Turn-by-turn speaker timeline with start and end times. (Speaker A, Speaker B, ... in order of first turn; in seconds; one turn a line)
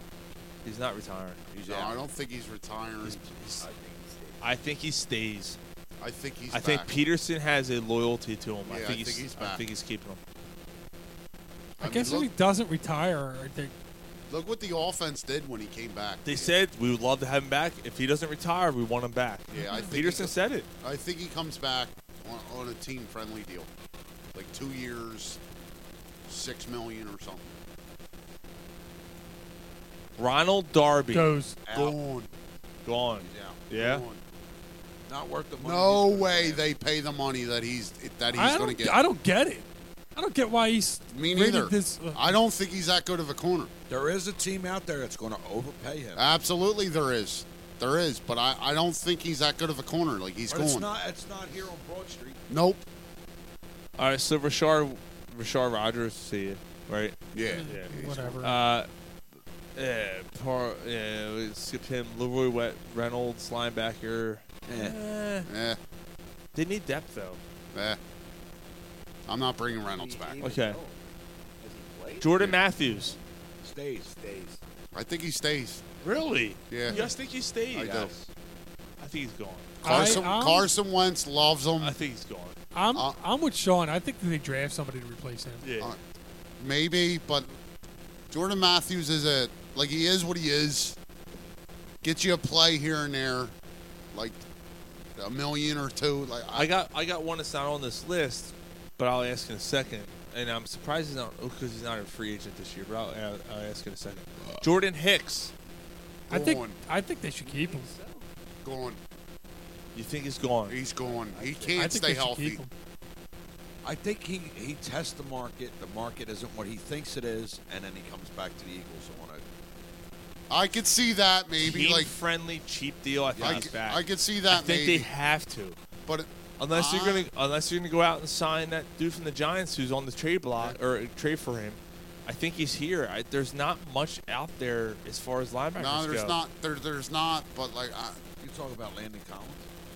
Speaker A: 0.6-1.4
Speaker B: 1.5-3.2
Speaker C: 1.6-2.0
Speaker A: 3.0-3.6
Speaker D: 3.6-4.5
Speaker A: 4.4-5.6
Speaker B: 6.0-6.9
Speaker A: 6.5-10.2
Speaker B: 8.7-9.6
Speaker B: 11.8-12.3
Speaker E: 11.8-13.7
Speaker B: 14.3-16.5
Speaker A: 16.2-20.7
Speaker B: 19.5-23.7
Speaker B: 24.3-25.4
Speaker B: 26.3-27.5
Speaker A: 30.2-31.3
Speaker E: 31.1-31.6
Speaker C: 31.7-32.0
Speaker B: 31.7-32.3
Speaker A: 32.8-34.0
Speaker C: 33.2-33.6
Speaker B: 33.7-34.2
Speaker C: 35.1-36.6
Speaker B: 35.6-39.0
Speaker E: 38.3-42.3
Speaker B: 41.1-43.7
Speaker C: 43.9-46.2
Speaker B: 46.1-50.9
Speaker C: 50.5-52.4
Speaker B: 52.5-52.8
Speaker A: 54.0-57.9
Speaker B: 57.3-58.4
Speaker E: 57.4-58.6
Speaker A: 58.4-58.9
Speaker A: 59.8-65.5
Speaker C: 64.7-65.0
Speaker B: 65.5-65.8
Speaker A: 66.5-67.4
Speaker B: 67.7-68.0
Speaker B: 69.3-70.4
Speaker D: 69.8-71.0
Speaker A: 70.4-70.8
Speaker D: 71.6-73.2
Speaker A: 72.2-73.2
Speaker C: 73.6-74.1
Speaker D: 74.0-74.6
Speaker B: 74.9-75.8
Speaker A: 76.0-78.3
Speaker B: 76.7-77.0
Speaker B: 77.7-78.1
Speaker C: 77.8-78.1
Speaker A: 79.0-80.2
Speaker B: 79.8-81.9
Speaker E: 79.8-80.7
Speaker A: 81.8-82.6
Speaker E: 82.7-85.6
Speaker A: 85.6-86.0
Speaker B: 86.6-87.5
Speaker B: 88.3-91.0
Speaker B: 92.0-93.5
Speaker B: 94.1-94.4
Speaker B: 95.2-96.7
Speaker A: 96.5-105.5
Speaker B: 106.3-106.8
Speaker E: 106.3-107.9
Speaker D: 107.4-108.2
Speaker B: 108.6-109.0
Speaker A: 109.9-110.8
Speaker B: 110.7-112.6
Speaker D: 111.0-111.7
Speaker E: 111.8-112.7
Speaker C: 113.8-119.4
Speaker B: 120.5-122.1
Speaker A: 121.6-125.8
Speaker C: 123.3-123.7
Speaker B: 123.4-125.1
Speaker B: 126.0-127.3
Speaker A: 126.6-136.4
Speaker B: 135.8-138.2
Speaker C: 138.4-139.7